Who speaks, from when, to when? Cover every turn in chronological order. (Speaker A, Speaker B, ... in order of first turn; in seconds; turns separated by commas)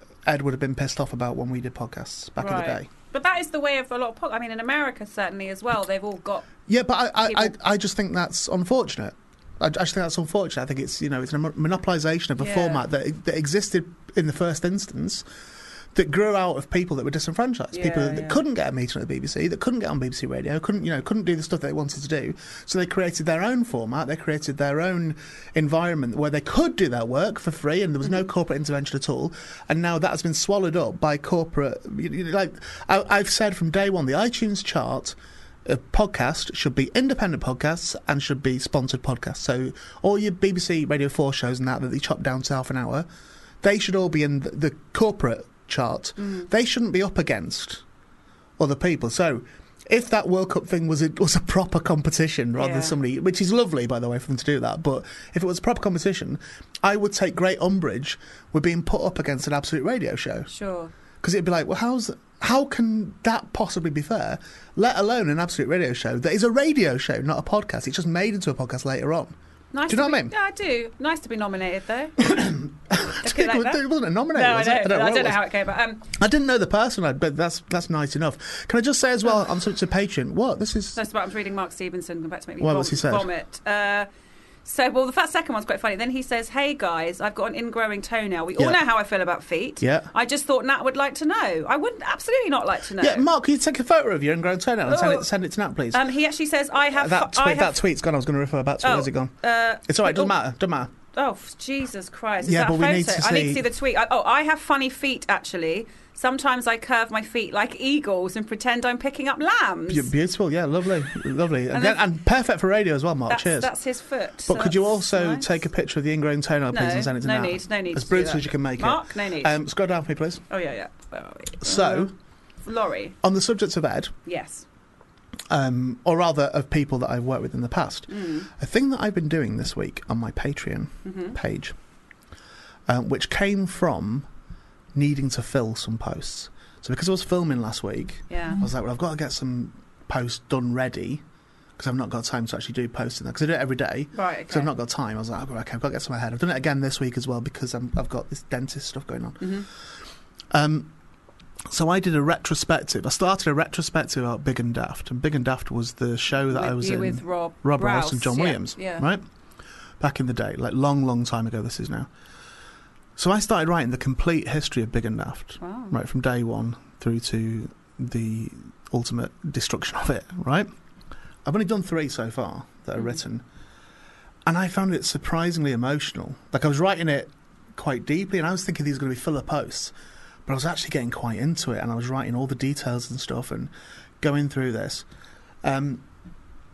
Speaker A: 0.2-2.9, Speaker B: 2.4-6.5, Speaker A: 6.7-15.2, Speaker B: 7.2-7.5, Speaker B: 12.4-12.8, Speaker A: 15.9-43.1, Speaker B: 17.7-18.4, Speaker A: 43.6-47.8, Speaker B: 46.2-46.5, Speaker A: 48.6-60.5, Speaker B: 52.6-53.0, Speaker B: 60.5-60.9, Speaker A: 61.2-69.3, Speaker B: 69.7-72.3, Speaker A: 69.9-70.3, Speaker A: 72.2-75.4, Speaker B: 73.2-76.0, Speaker A: 76.1-81.0, Speaker B: 81.0-84.1, Speaker A: 82.6-83.3, Speaker B: 84.6-93.2, Speaker A: 89.8-90.1, Speaker A: 93.0-96.1, Speaker B: 94.9-95.3, Speaker B: 95.9-97.8, Speaker A: 96.9-100.9, Speaker B: 98.8-100.3, Speaker B: 101.1-110.1, Speaker A: 102.4-103.6, Speaker A: 109.9-113.7, Speaker B: 111.7-112.0, Speaker B: 113.3-115.6, Speaker A: 114.5-120.4, Speaker B: 116.7-119.5, Speaker B: 120.5-122.1, Speaker A: 121.6-122.1, Speaker B: 122.6-123.2, Speaker A: 123.2-124.1, Speaker B: 124.2-124.6, Speaker A: 125.5-131.7, Speaker B: 128.1-128.5, Speaker B: 131.0-131.4, Speaker A: 132.9-134.3, Speaker A: 134.9-141.2, Speaker B: 138.3-138.6, Speaker A: 141.8-149.6, Speaker B: 144.1-144.7, Speaker B: 149.4-149.7, Speaker A: 150.5-150.9, Speaker A: 151.7-159.2, Speaker B: 156.5-159.1, Speaker A: 160.0-162.1, Speaker A: 163.2-170.7, Speaker B: 165.6-165.9, Speaker A: 171.4-173.4, Speaker A: 174.4-179.9, Speaker A: 180.4-185.1, Speaker A: 185.6-186.0